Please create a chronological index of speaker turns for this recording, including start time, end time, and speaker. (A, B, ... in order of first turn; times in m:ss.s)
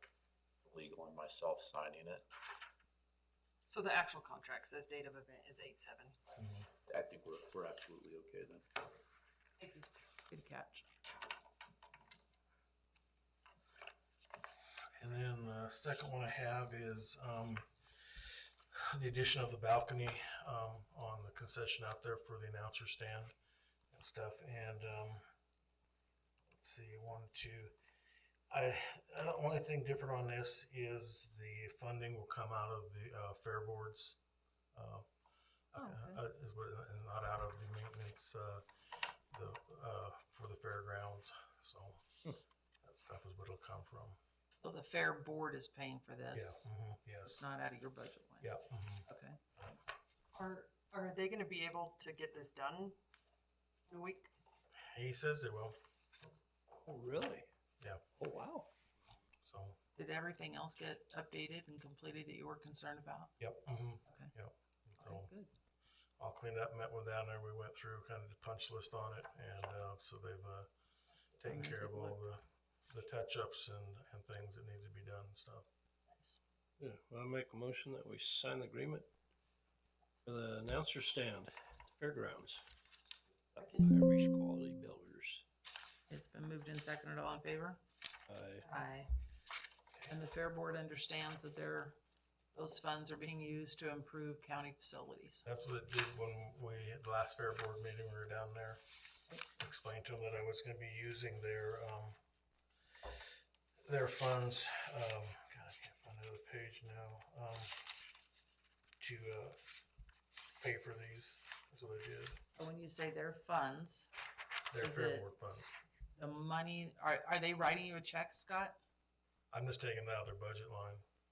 0:00.6-0:02.2 A
0:03.7-0:06.2 B
0:06.4-0:06.7 C
0:06.9-0:08.7 A
0:09.6-0:10.9 D
0:15.0-0:18.2 C
0:18.7-0:23.3 C
0:23.9-0:25.2 C
0:26.6-0:27.8 C
0:28.5-0:34.2 C
0:34.8-0:35.0 C
0:35.7-0:38.6 C
0:35.8-0:36.2 D
0:39.3-0:42.2 C
0:42.8-0:44.2 C
0:44.6-0:46.7 D
0:46.3-0:47.5 C
0:47.2-0:48.6 D
0:48.4-0:49.1 C
0:49.1-0:49.4 D
0:50.4-0:53.0 B
0:53.9-0:54.3 B
0:54.9-0:55.8 C
0:56.8-0:57.5 E
0:58.2-0:58.7 E
0:59.4-0:59.8 C
1:00.0-1:03.3 D
1:03.4-1:05.3 C
1:04.1-1:04.3 D
1:05.0-1:05.5 D
1:06.2-1:10.7 C
1:11.4-1:15.6 C
1:11.4-1:12.2 D
1:16.1-1:16.4 D
1:16.8-1:19.1 E
1:20.2-1:22.6 E
1:23.5-1:25.4 E
1:26.1-1:27.8 D
1:28.3-1:28.7 E
1:28.6-1:29.1 D
1:30.1-1:32.0 D
1:32.5-1:35.4 D
1:35.4-1:38.8 C
1:39.6-1:42.2 C
1:43.9-1:48.0 C
1:49.0-1:49.6 C
1:50.6-1:52.4 C
1:52.6-1:54.1 D
1:54.7-1:55.8 C
1:54.8-1:55.3 D
1:56.2-1:58.8 D
1:59.5-2:01.0 C